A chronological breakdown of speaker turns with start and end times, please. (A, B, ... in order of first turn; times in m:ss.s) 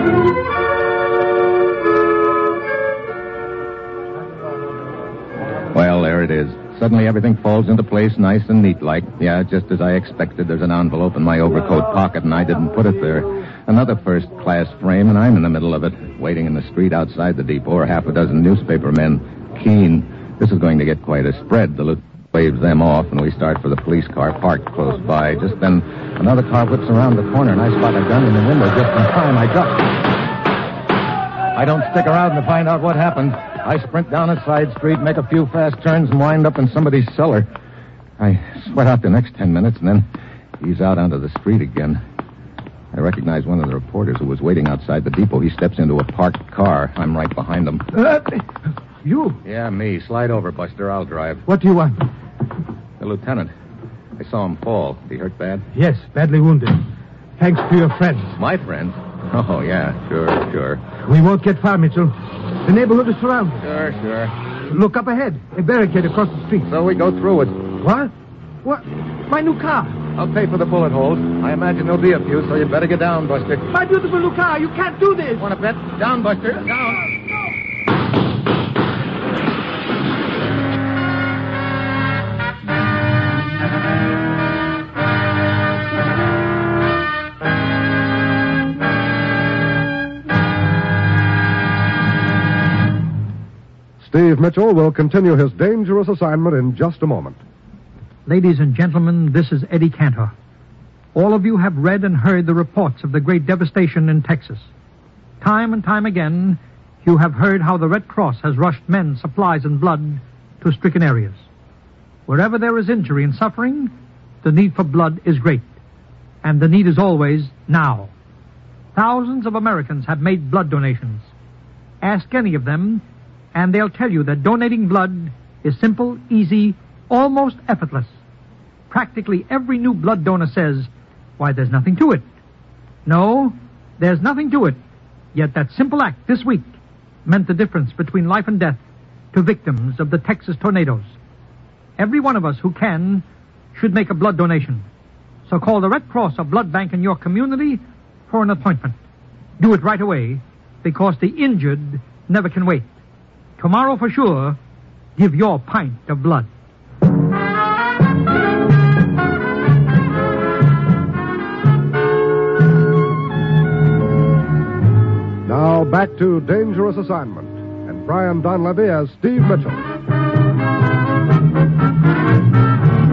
0:05.7-0:30.0 A
0:31.5-0:37.5 A
0:38.2-0:40.1 A
0:40.6-0:42.0 A
0:42.9-0:47.9 A
0:47.9-0:48.5 B
0:49.0-0:49.4 B
0:49.4-0:51.4 A
0:51.5-0:52.1 B
0:53.0-0:53.5 A
0:54.2-0:55.7 A
0:55.7-0:56.8 B
0:57.4-0:58.4 B
0:58.4-1:00.8 A
1:01.0-1:03.6 B
1:03.6-1:04.3 A
1:04.7-1:06.7 B
1:06.7-1:07.6 A
1:07.8-1:08.1 B
1:08.6-1:10.0 B
1:10.1-1:13.7 A
1:13.7-1:15.5 B
1:15.4-1:17.1 A
1:34.0-1:37.4 C
1:38.2-1:40.3 D
1:41.1-1:44.7 D
1:45.4-1:51.4 D
1:52.3-1:55.7 D
1:56.4-1:58.1 D
1:58.9-2:01.3 D
2:02.0-2:08.2 D
2:08.9-2:12.2 D
2:13.0-2:14.8 D
2:15.3-2:18.8 D
2:19.3-2:21.1 D
2:22.0-2:24.9 D
2:25.5-2:29.0 D
2:29.6-2:32.9 D
2:33.6-2:34.6 D
2:35.2-2:36.5 D
2:45.4-2:49.8 C